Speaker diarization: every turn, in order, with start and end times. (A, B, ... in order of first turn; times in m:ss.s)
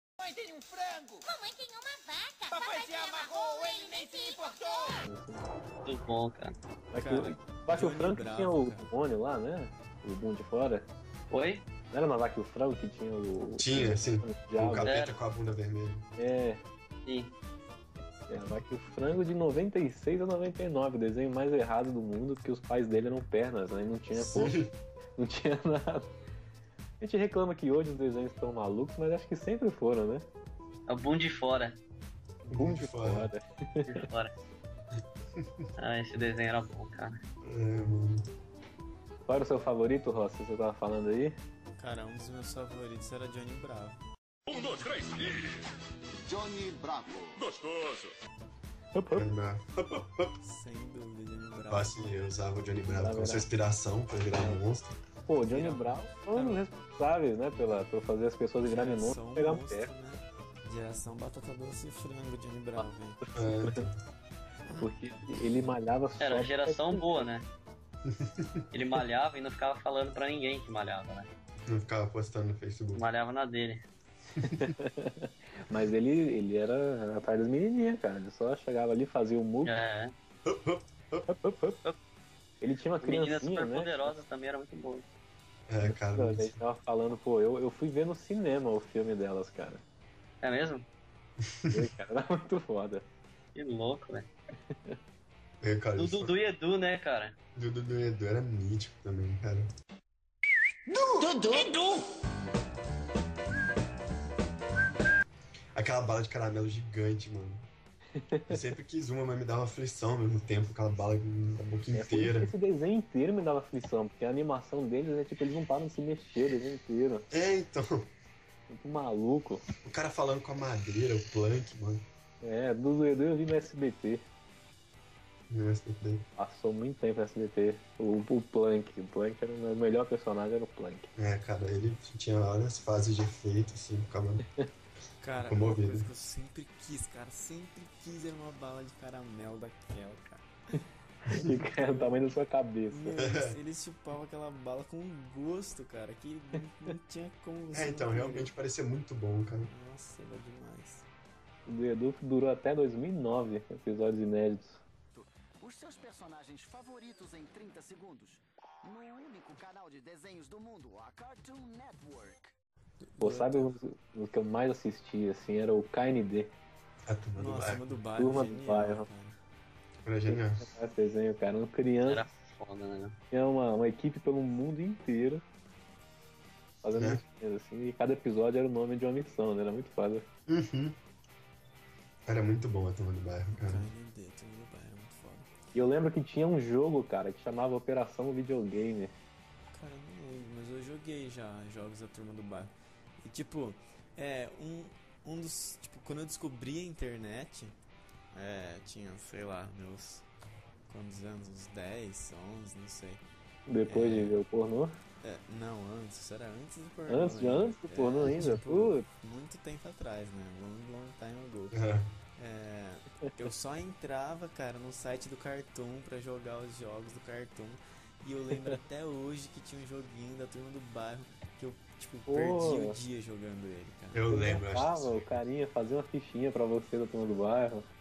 0:00.2-0:01.2 A
0:01.2-0:04.6 B
0:02.5-0:05.0 A
0:05.0-0:05.5 C
0:05.8-0:06.6 D
0:06.9-0:10.9 C
0:07.0-0:08.9 E
0:11.3-0:11.6 D
0:11.9-0:14.9 C
0:13.6-0:16.1 F
0:14.8-0:15.1 D
0:16.2-0:16.6 C
0:17.0-0:17.3 D
0:18.3-0:24.6 C
0:24.1-0:24.7 F
0:25.2-0:26.1 C
0:27.0-0:30.2 C
0:30.9-0:31.8 D
0:32.4-0:34.0 C
0:32.5-0:33.3 F
0:33.8-0:34.3 D
0:35.4-0:35.6 F
0:35.8-0:37.1 D
0:37.4-0:38.2 F
0:39.3-0:41.4 C
0:41.8-0:44.0 E
0:44.5-0:45.5 A
0:46.3-0:48.1 A
0:48.9-0:49.3 C
0:49.1-0:50.4 F
0:50.4-0:52.2 E
0:51.7-0:55.0 F
0:52.9-0:53.4 C
0:55.3-0:59.9 C
0:55.5-0:56.6 E
0:58.6-1:03.2 E
1:03.2-1:03.9 C
1:03.3-1:04.0 F
1:04.7-1:07.3 C
1:06.2-1:07.4 D
1:08.0-1:08.6 F
1:08.7-1:11.3 D
1:11.7-1:13.1 F
1:12.9-1:13.8 D
1:14.4-1:14.7 F
1:14.4-1:19.8 C
1:19.6-1:20.1 D
1:20.4-1:21.3 F
1:21.3-1:21.8 C
1:22.6-1:24.2 C
1:23.0-1:25.0 D
1:25.7-1:26.6 F
1:25.8-1:29.8 C
1:30.4-1:30.8 D
1:31.4-1:31.9 F
1:31.7-1:33.0 C
1:33.5-1:34.3 D
1:35.6-1:36.3 F
1:36.0-1:37.4 D
1:37.6-1:39.7 F
1:40.9-1:42.1 A
1:45.7-1:47.6 F
1:48.2-1:48.6 C
1:48.5-1:52.5 F
1:51.9-1:57.3 C
1:57.3-1:58.1 F
1:58.7-1:59.6 C
1:59.8-2:02.0 F
2:02.4-2:04.2 C
2:05.5-2:06.3 F
2:06.4-2:11.1 C
2:11.2-2:14.4 F
2:15.2-2:20.4 E
2:15.4-2:16.1 F
2:21.2-2:23.1 C
2:21.7-2:22.2 E
2:22.9-2:28.5 E
2:23.2-2:23.6 F
2:27.7-2:29.7 F
2:29.7-2:31.0 E
2:31.6-2:34.8 C
2:35.1-2:42.5 A
2:43.0-2:43.7 E
2:43.2-2:46.5 C
2:47.1-2:48.0 F
2:47.4-2:49.4 E
2:48.2-2:49.0 C
2:50.0-2:50.6 F
2:50.3-2:52.2 C
2:52.0-2:53.2 D
2:53.3-2:55.4 C
2:56.8-3:00.2 C
2:56.9-2:57.2 F
3:00.5-3:01.0 F
3:02.2-3:03.9 F
3:03.6-3:05.5 E
3:05.7-3:09.1 C
3:09.7-3:17.7 E
3:18.3-3:20.2 E
3:20.9-3:23.2 E
3:23.7-3:25.0 C
3:23.9-3:24.4 E
3:25.2-3:31.8 E
3:27.1-3:29.0 C
3:28.2-3:28.5 F
3:31.7-3:32.1 F
3:32.4-3:44.2 E
3:42.3-3:43.0 C
3:44.1-3:45.4 F
3:44.3-3:47.9 C